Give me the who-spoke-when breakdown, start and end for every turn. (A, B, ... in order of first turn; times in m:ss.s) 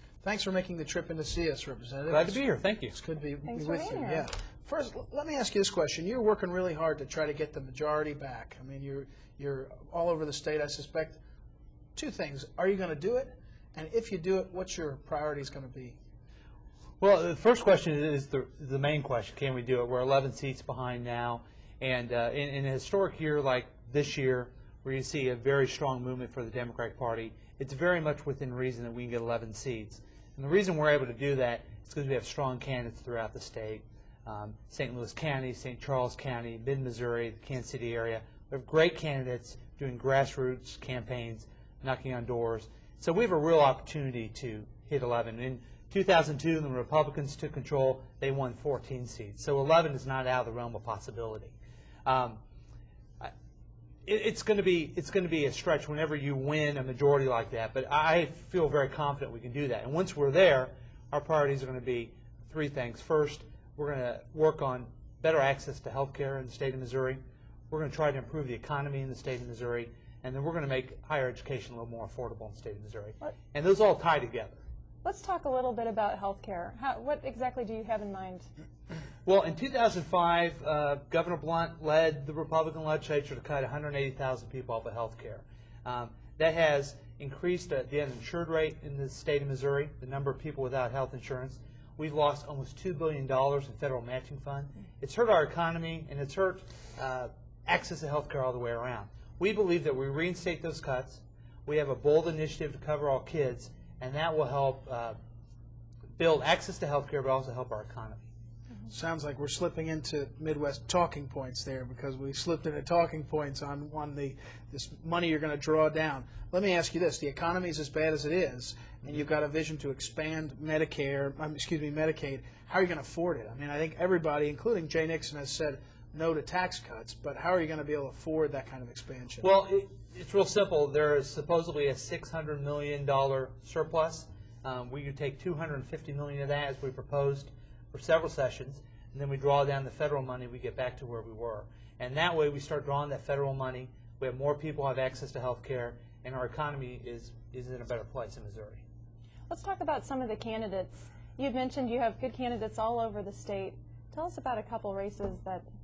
0:00.2-0:02.4 A
0:02.1-0:03.0 B
0:02.9-0:11.2 A
0:03.4-0:04.3 C
0:11.9-0:16.0 A
0:17.0-0:51.5 B
0:52.0-0:52.4 B
0:54.0-1:14.6 B
1:15.0-1:18.5 C
1:19.2-1:45.2 B
1:46.2-1:48.3 B
1:48.9-2:09.5 A
2:09.4-2:28.8 B
2:29.5-2:35.6 C